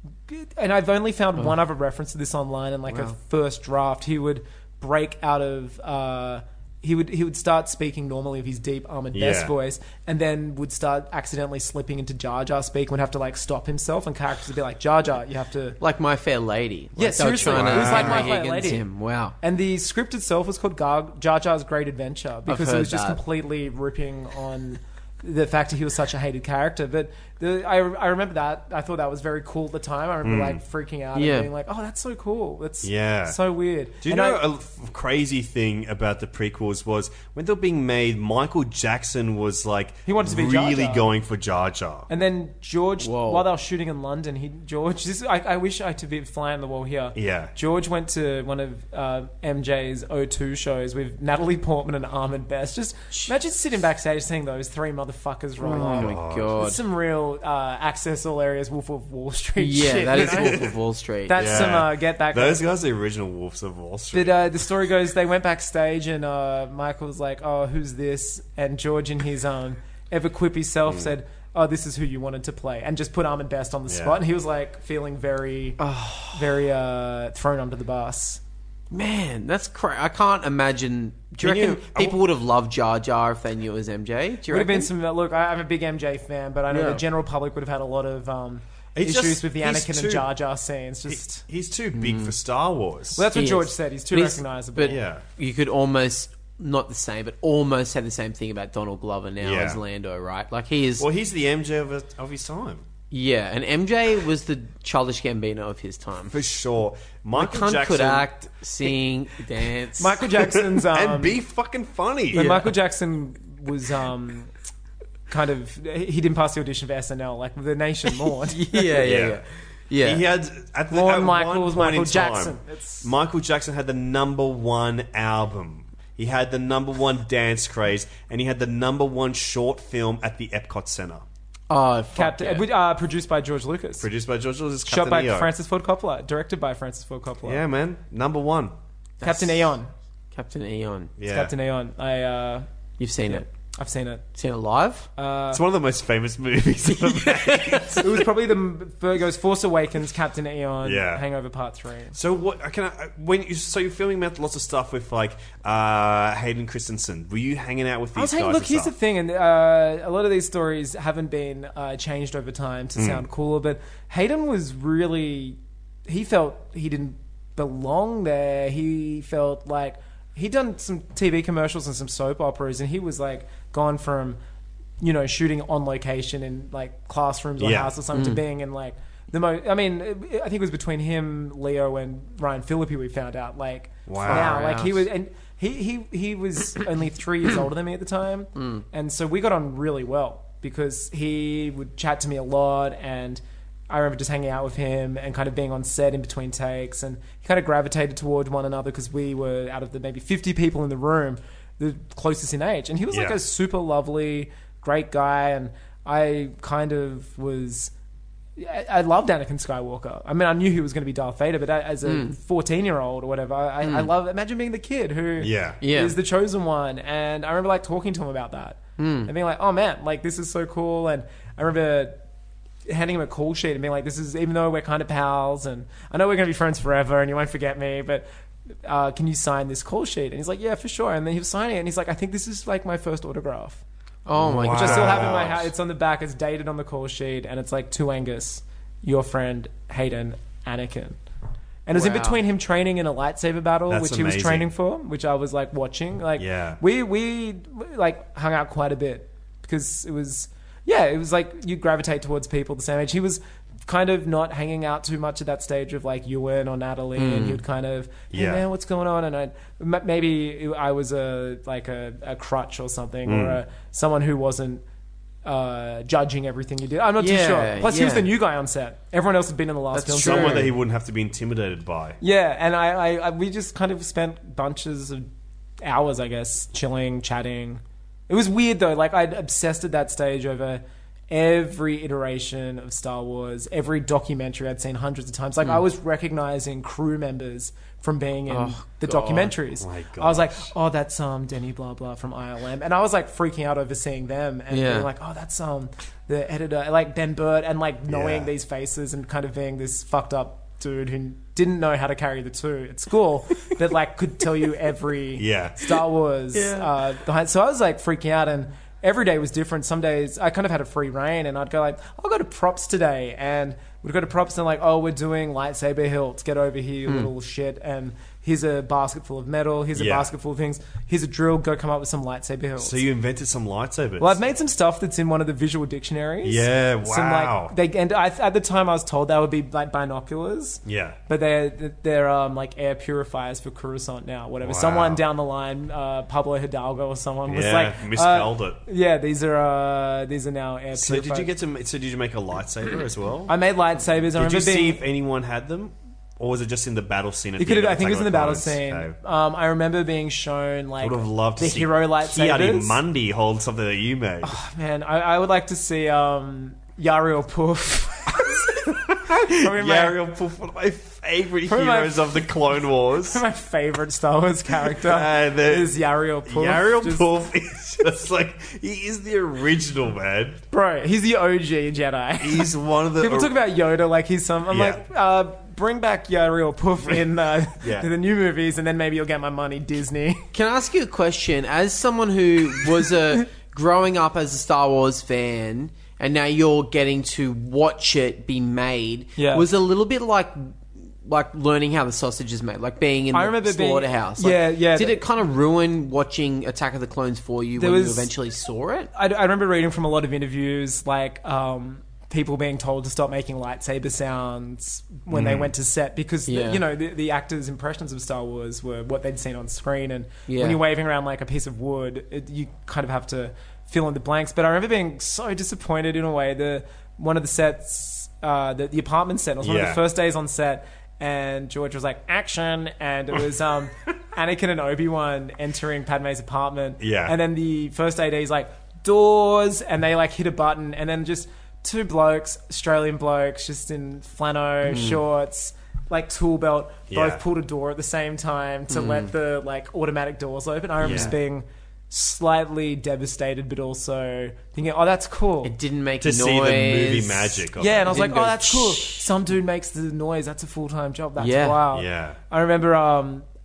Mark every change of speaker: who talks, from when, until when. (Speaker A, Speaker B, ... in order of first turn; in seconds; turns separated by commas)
Speaker A: 0.3-15.8, Speaker B: 2.9-3.1, Speaker C: 9.1-9.5, Speaker B: 15.8-19.4, Speaker A: 17.0-18.8, Speaker C: 17.3-18.3, Speaker A: 19.4-34.4, Speaker B: 22.5-23.2, Speaker C: 30.2-30.6, Speaker B: 31.1-31.5, Speaker C: 32.8-33.4, Speaker C: 34.0-42.1, Speaker A: 40.0-41.1, Speaker A: 42.1-60.7, Speaker B: 43.0-43.5, Speaker C: 47.1-47.5, Speaker B: 55.6-56.8, Speaker C: 55.8-56.7, Speaker B: 59.6-61.7, Speaker C: 60.2-60.7, Speaker A: 61.3-62.6, Speaker C: 61.3-64.6, Speaker A: 64.1-75.8, Speaker C: 73.9-74.2, Speaker B: 75.8-76.6, Speaker A: 76.3-78.4, Speaker B: 78.9-84.9, Speaker C: 81.4-82.2, Speaker A: 84.5-91.5, Speaker B: 86.7-87.0, Speaker C: 89.0-90.3, Speaker C: 91.1-93.3, Speaker B: 91.9-92.3, Speaker A: 93.2-95.0, Speaker B: 93.3-101.0, Speaker C: 94.8-95.2, Speaker C: 99.4-99.8, Speaker C: 101.0-102.8, Speaker B: 103.1-106.4, Speaker C: 106.3-108.3, Speaker B: 107.3-110.2, Speaker A: 110.0-111.4, Speaker C: 110.5-112.6, Speaker A: 112.3-114.5, Speaker B: 112.3-112.7, Speaker A: 115.3-118.9, Speaker B: 118.5-120.2, Speaker C: 119.0-119.4, Speaker C: 120.0-131.3, Speaker A: 120.9-123.1, Speaker B: 131.7-132.7, Speaker A: 132.2-134.1, Speaker C: 134.0-135.5, Speaker A: 134.9-137.6, Speaker C: 137.4-138.7, Speaker B: 139.2-139.7, Speaker A: 139.2-139.9, Speaker B: 140.3-141.1, Speaker C: 141.2-141.5, Speaker A: 141.2-142.7, Speaker B: 143.0-143.4, Speaker A: 143.3-144.2, Speaker B: 144.3-145.1, Speaker A: 145.2-145.6, Speaker C: 145.5-148.2, Speaker B: 146.9-148.1, Speaker A: 148.0-152.1, Speaker C: 150.8-151.3, Speaker C: 152.1-158.9, Speaker A: 158.1-174.4, Speaker C: 162.9-163.2, Speaker A: 175.0-207.9, Speaker C: 177.6-177.9, Speaker B: 178.1-178.4, Speaker C: 184.1-184.7, Speaker B: 184.3-185.1, Speaker B: 188.6-188.8, Speaker C: 203.1-203.4, Speaker A: 208.6-222.2, Speaker B: 212.1-212.3, Speaker B: 213.8-214.1, Speaker C: 215.4-215.8, Speaker B: 215.8-216.2, Speaker B: 219.0-219.3, Speaker A: 222.9-228.2, Speaker A: 228.8-233.8, Speaker B: 234.3-235.6, Speaker C: 234.4-235.7, Speaker A: 234.7-241.2, Speaker A: 241.9-264.8, Speaker B: 241.9-242.4, Speaker C: 243.9-244.7, Speaker C: 246.4-246.8, Speaker B: 257.1-257.6, Speaker C: 258.3-258.6, Speaker C: 263.3-263.6, Speaker A: 265.4-270.7, Speaker B: 267.2-268.3, Speaker B: 269.9-270.7, Speaker C: 270.2-272.2, Speaker A: 272.2-275.3, Speaker A: 275.8-323.0, Speaker B: 288.5-289.5, Speaker C: 289.8-290.7, Speaker B: 294.7-295.1, Speaker C: 298.1-298.5, Speaker C: 305.4-305.9, Speaker B: 306.5-306.9, Speaker C: 319.9-320.3, Speaker C: 322.8-324.4, Speaker A: 324.2-341.5, Speaker C: 326.4-327.7, Speaker C: 330.8-331.2, Speaker C: 334.6-335.2, Speaker C: 337.5-338.8, Speaker C: 340.9-343.6, Speaker A: 343.5-345.0, Speaker C: 344.3-349.1, Speaker A: 347.6-353.0, Speaker C: 351.0-354.6, Speaker A: 354.4-360.2, Speaker C: 358.9-363.4, Speaker A: 361.6-362.4, Speaker A: 363.1-367.3, Speaker C: 364.8-370.6, Speaker A: 370.7-380.5, Speaker C: 372.4-373.6, Speaker C: 374.7-375.0, Speaker C: 377.8-378.1, Speaker B: 380.5-390.7, Speaker A: 389.4-389.6, Speaker B: 391.2-399.1, Speaker A: 393.3-395.2, Speaker A: 397.8-398.3, Speaker A: 399.1-445.7, Speaker C: 405.3-405.7, Speaker B: 406.5-406.8, Speaker B: 410.5-410.8, Speaker C: 419.6-420.0, Speaker C: 427.0-427.4, Speaker B: 434.9-435.2, Speaker C: 437.1-437.4, Speaker B: 438.9-439.3, Speaker C: 441.0-441.3, Speaker B: 441.1-441.3, Speaker B: 445.6-449.3, Speaker C: 446.2-448.3, Speaker A: 447.8-453.4, Speaker B: 451.4-451.8, Speaker C: 451.9-452.4